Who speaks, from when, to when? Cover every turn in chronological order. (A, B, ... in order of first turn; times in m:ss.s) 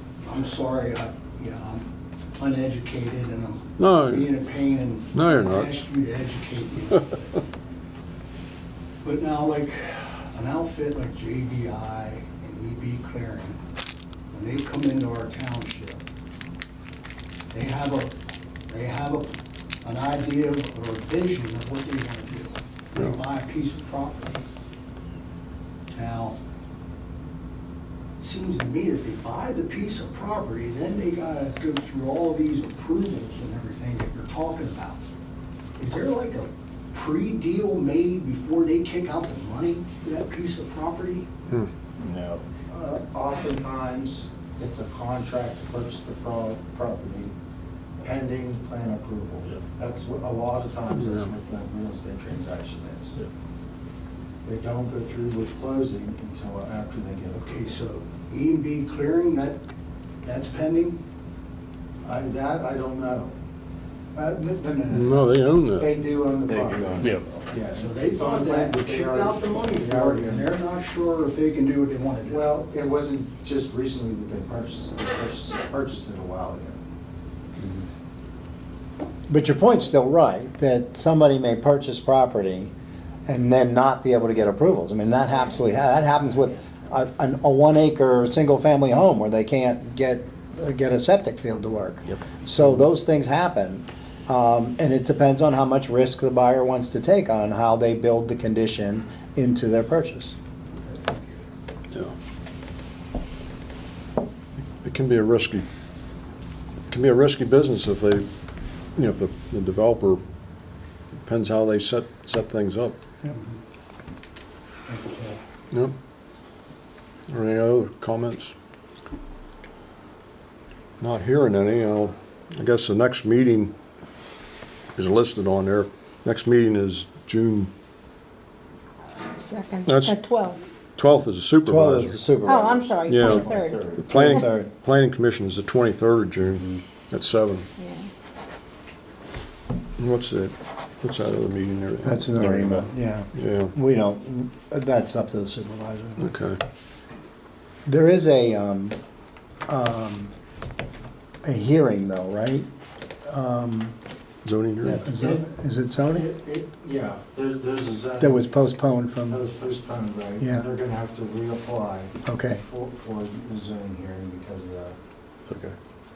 0:00.2-0:01.9 A
0:02.4-0:07.3 A
0:03.8-0:04.3 B
0:05.1-0:05.7 B
0:09.0-0:13.6 A
0:14.3-0:16.0 A
0:17.5-0:18.1 A
0:18.7-0:24.4 A
0:26.0-0:26.4 A
0:28.2-0:35.0 A
0:35.8-0:41.3 A
0:42.0-0:42.4 C
0:42.7-0:47.4 D
0:48.0-0:53.2 D
0:50.9-0:51.3 B
0:54.4-0:57.8 D
0:57.4-0:59.6 A
1:00.2-1:01.0 A
1:02.0-1:03.3 D
1:04.2-1:05.3 A
1:04.9-1:06.0 B
1:05.8-1:10.5 D
1:06.4-1:07.4 C
1:07.7-1:12.5 A
1:12.3-1:16.8 D
1:19.3-1:22.7 E
1:23.3-1:40.4 E
1:40.8-1:41.4 A
1:44.8-1:45.7 B
1:46.9-1:48.3 B
1:49.0-1:50.2 B
1:51.2-1:53.0 B
1:53.2-1:53.6 A
1:54.9-1:55.4 A
1:57.3-1:58.6 B
2:01.0-2:03.7 B
2:05.0-2:07.7 B
2:09.3-2:10.6 F
2:09.8-2:10.2 B
2:11.0-2:12.3 B
2:11.6-2:13.0 E
2:12.4-2:14.5 F
2:13.0-2:17.7 B
2:13.2-2:14.1 C
2:14.0-2:14.7 E
2:17.8-2:18.1 F
2:20.0-2:23.7 B
2:22.0-2:26.4 E
2:26.2-2:26.6 B
2:27.9-2:29.0 E
2:29.7-2:30.3 E
2:31.4-2:32.7 E
2:33.2-2:34.0 E
2:34.4-2:35.2 B
2:34.8-2:36.3 E
2:35.2-2:35.4 D
2:36.3-2:38.4 D
2:38.2-2:39.4 E
2:39.3-2:45.0 D
2:40.4-2:40.6 E
2:42.2-2:42.6 E